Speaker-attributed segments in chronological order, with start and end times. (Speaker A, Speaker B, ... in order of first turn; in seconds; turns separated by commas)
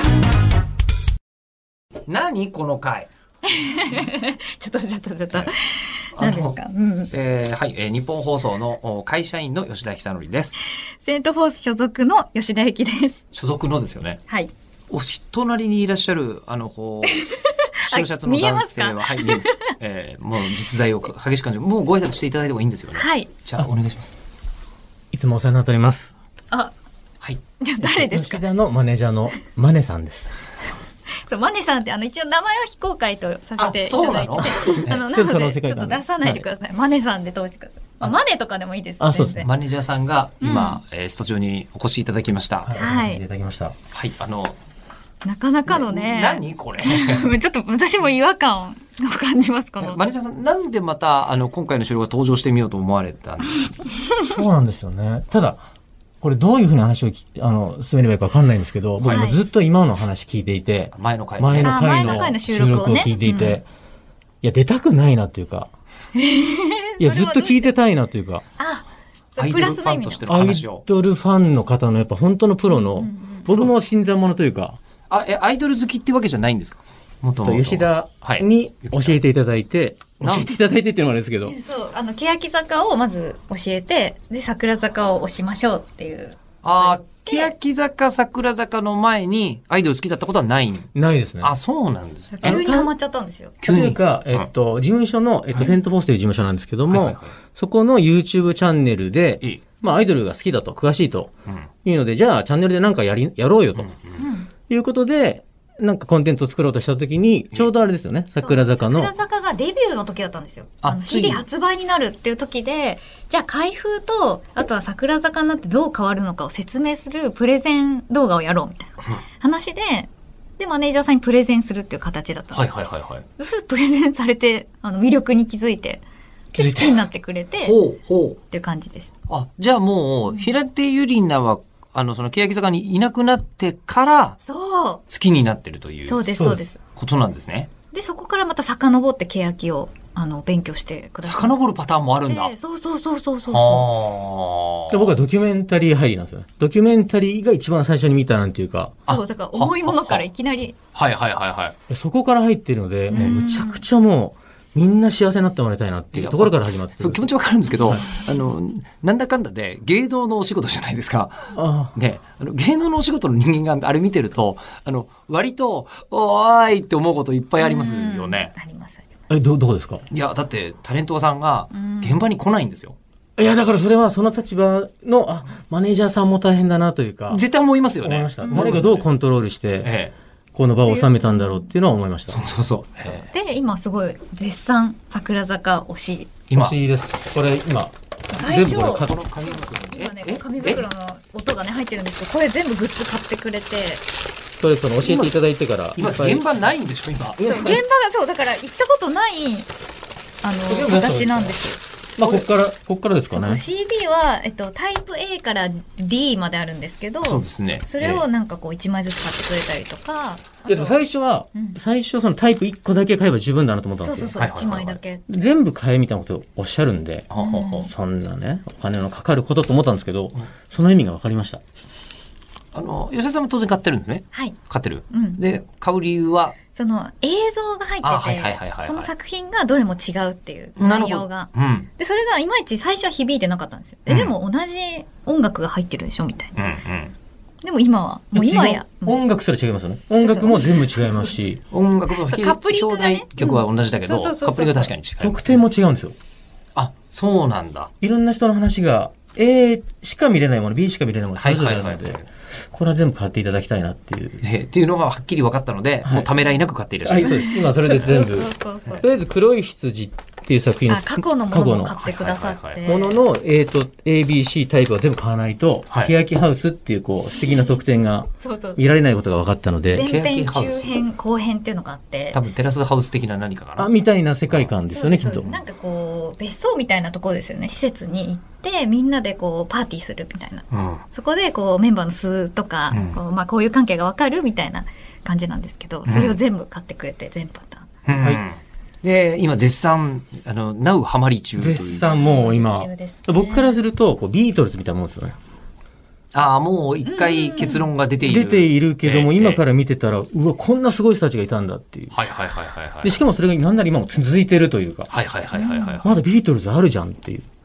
Speaker A: 2.1-3.1, Speaker B: 3.4-7.1, Speaker A: 6.2-6.5, Speaker A: 7.1-10.6, Speaker B: 11.0-13.2, Speaker A: 13.3-14.2, Speaker A: 14.9-17.2, Speaker B: 17.1-19.7, Speaker A: 17.9-24.1, Speaker B: 22.9-23.3, Speaker C: 25.1-26.1, Speaker B: 27.6-28.4, Speaker C: 27.8-30.3, Speaker B: 31.2-39.5, Speaker A: 33.6-35.0, Speaker C: 34.4-36.5, Speaker C: 39.0-39.5, Speaker A: 39.4-42.7, Speaker B: 40.4-40.8, Speaker C: 42.6-43.8, Speaker B: 42.8-43.2, Speaker A: 43.9-44.5, Speaker B: 45.2-50.0, Speaker A: 45.7-47.3, Speaker A: 49.8-53.7, Speaker C: 54.2-55.6, Speaker C: 56.2-63.6, Speaker A: 59.0-59.3, Speaker B: 59.0-59.4, Speaker A: 60.9-62.2, Speaker B: 61.6-63.6, Speaker C: 64.4-65.7, Speaker B: 66.1-67.7, Speaker C: 67.0-68.4, Speaker B: 68.6-70.3, Speaker A: 69.4-70.8, Speaker C: 70.3-74.8, Speaker B: 72.7-73.5, Speaker A: 75.1-79.2, Speaker C: 77.4-81.5, Speaker A: 80.2-80.5, Speaker B: 81.5-87.5, Speaker A: 86.6-92.6, Speaker C: 90.9-91.5, Speaker B: 92.3-93.5, Speaker C: 92.4-92.9, Speaker A: 93.6-94.5, Speaker C: 93.7-101.3, Speaker A: 96.9-97.3, Speaker C: 101.8-103.9, Speaker B: 104.2-104.5, Speaker C: 104.7-109.1, Speaker B: 108.4-122.8, Speaker A: 110.8-111.4, Speaker A: 122.5-123.2, Speaker B: 123.4-126.0, Speaker C: 126.5-127.0, Speaker B: 126.5-127.8, Speaker A: 127.6-128.4, Speaker B: 128.5-129.1, Speaker A: 129.3-134.4, Speaker B: 134.4-135.0, Speaker A: 135.1-136.3, Speaker B: 136.0-136.8, Speaker C: 136.3-136.6, Speaker A: 136.9-137.7, Speaker B: 137.9-141.6, Speaker A: 141.2-142.5, Speaker B: 142.3-143.9, Speaker A: 143.5-145.1, Speaker C: 144.9-149.0, Speaker A: 149.1-150.2, Speaker B: 149.1-150.8, Speaker A: 150.9-151.8, Speaker C: 151.9-157.2, Speaker B: 153.1-153.8, Speaker A: 153.2-153.4, Speaker A: 156.1-168.5, Speaker C: 161.5-161.9, Speaker B: 167.6-169.1, Speaker C: 169.3-170.0, Speaker A: 170.1-172.9, Speaker B: 171.7-172.2, Speaker C: 173.4-177.4, Speaker A: 177.3-179.1, Speaker C: 178.0-179.9, Speaker B: 178.4-178.7, Speaker A: 179.8-180.1, Speaker C: 180.5-182.4, Speaker B: 180.8-181.7, Speaker A: 182.3-183.3, Speaker B: 183.0-186.3, Speaker A: 186.5-186.8, Speaker C: 186.5-189.1, Speaker B: 188.3-194.1, Speaker A: 188.6-190.8, Speaker C: 194.6-196.5, Speaker A: 195.0-195.3, Speaker A: 195.9-197.4, Speaker C: 197.4-197.8, Speaker B: 197.4-199.7, Speaker B: 200.4-202.4, Speaker C: 200.7-201.6, Speaker C: 202.2-203.6, Speaker B: 203.3-211.0, Speaker A: 207.2-208.2, Speaker C: 210.6-214.4, Speaker B: 214.0-215.3, Speaker A: 214.3-215.0, Speaker C: 215.3-221.6, Speaker A: 217.3-217.9, Speaker B: 217.4-217.9, Speaker A: 222.7-226.6, Speaker B: 225.1-225.4, Speaker B: 226.7-236.6, Speaker A: 228.0-229.1, Speaker A: 230.8-231.9, Speaker A: 234.1-234.3, Speaker A: 236.6-237.1, Speaker B: 237.6-239.2, Speaker C: 238.3-241.6, Speaker B: 240.2-241.4, Speaker A: 241.7-245.6, Speaker B: 242.2-244.9, Speaker C: 245.2-246.1, Speaker A: 246.8-247.9, Speaker C: 248.0-252.2, Speaker A: 251.4-252.3, Speaker C: 252.7-254.4, Speaker A: 254.4-258.3, Speaker C: 257.0-262.0, Speaker B: 257.2-259.1, Speaker B: 260.9-263.2, Speaker A: 262.0-262.8, Speaker C: 262.8-270.1, Speaker B: 268.4-268.8, Speaker B: 269.9-272.4, Speaker A: 270.0-271.0, Speaker A: 272.3-273.9, Speaker C: 273.8-275.5, Speaker B: 274.9-287.9, Speaker A: 280.7-281.0, Speaker A: 282.9-283.2, Speaker A: 286.1-286.4, Speaker A: 288.1-292.1, Speaker C: 291.6-295.4, Speaker B: 291.9-293.8, Speaker A: 296.3-299.6, Speaker B: 297.0-297.9, Speaker C: 298.2-302.2, Speaker A: 302.1-303.1, Speaker C: 303.0-305.1, Speaker A: 305.1-306.2, Speaker B: 305.5-306.0, Speaker C: 306.0-307.4